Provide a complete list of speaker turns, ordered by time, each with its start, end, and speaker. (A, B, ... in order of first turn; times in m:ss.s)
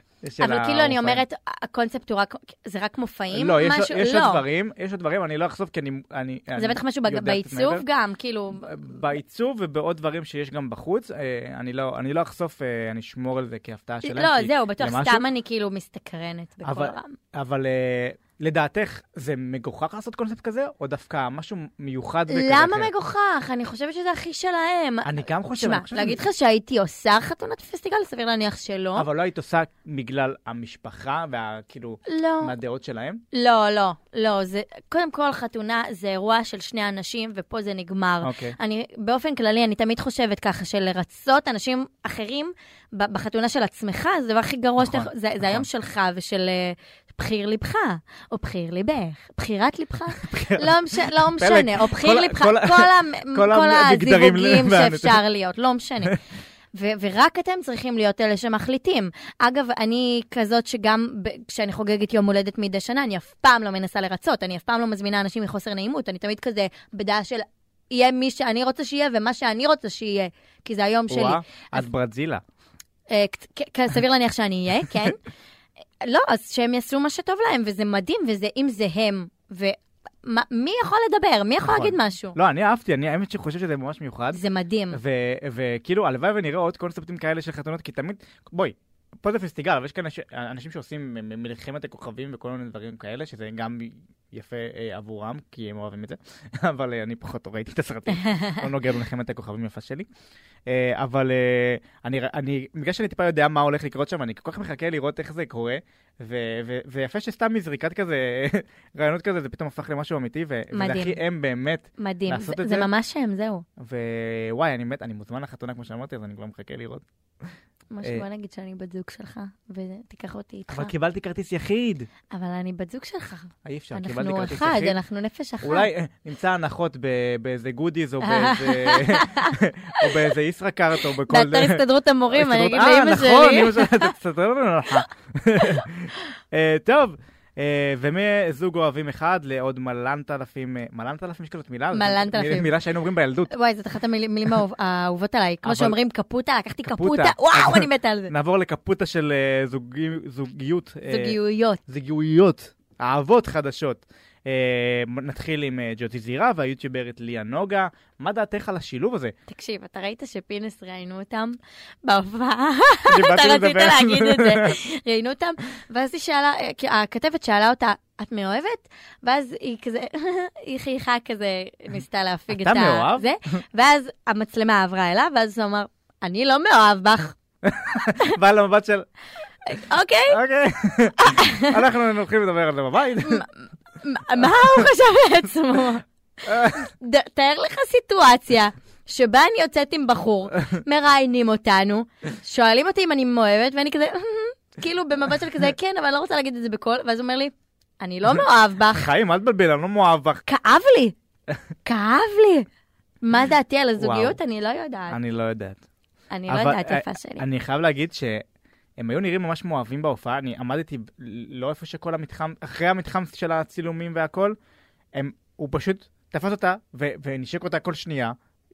0:00.2-0:01.2 A
0:00.4-0:04.4 B
0:03.3-0:07.8 A
0:06.6-0:08.7 B
0:08.6-0:15.2 A
0:14.0-0:17.1 B
0:16.6-0:22.9 A
0:22.3-0:29.1 B
0:25.0-0:26.2 A
0:28.9-0:33.2 A
0:32.0-0:32.5 B
0:33.3-0:56.2 B
0:38.2-0:38.6 A
0:44.8-0:45.6 A
0:50.1-0:55.2 A
0:56.7-1:11.8 B
1:11.1-1:12.4 A
1:13.1-1:15.2 B
1:16.0-1:22.4 B
1:21.6-1:24.4 A
1:24.3-1:25.0 B
1:24.9-1:40.1 A
1:38.1-1:38.6 B
1:40.7-1:52.9 A
1:50.7-1:51.2 B
1:52.0-1:53.6 B
1:53.8-1:57.0 A
1:57.9-2:00.9 B
2:00.7-2:02.1 A
2:02.3-2:05.9 B
2:03.6-2:05.0 A
2:05.6-2:23.5 A
2:08.2-2:10.2 B
2:11.0-2:14.1 B
2:21.9-2:22.7 B
2:23.5-2:28.3 B
2:25.6-2:26.0 A
2:26.9-2:39.3 A
2:31.1-2:31.8 B
2:39.5-2:57.4 B
2:43.1-2:44.8 A
2:52.5-2:53.2 A
2:57.6-2:59.1 A
2:59.6-3:00.4 B
3:00.3-3:03.4 A
3:01.2-3:01.8 B
3:03.2-3:03.5 B
3:04.0-3:19.1 B
3:06.4-3:06.9 A
3:18.3-3:20.4 A
3:20.5-3:21.1 B
3:21.8-3:22.6 B
3:23.2-3:25.2 B
3:24.0-3:24.4 A
3:25.1-3:25.8 A
3:26.3-3:27.4 B
3:26.5-3:28.4 A
3:29.0-3:34.6 A
3:35.1-3:38.3 A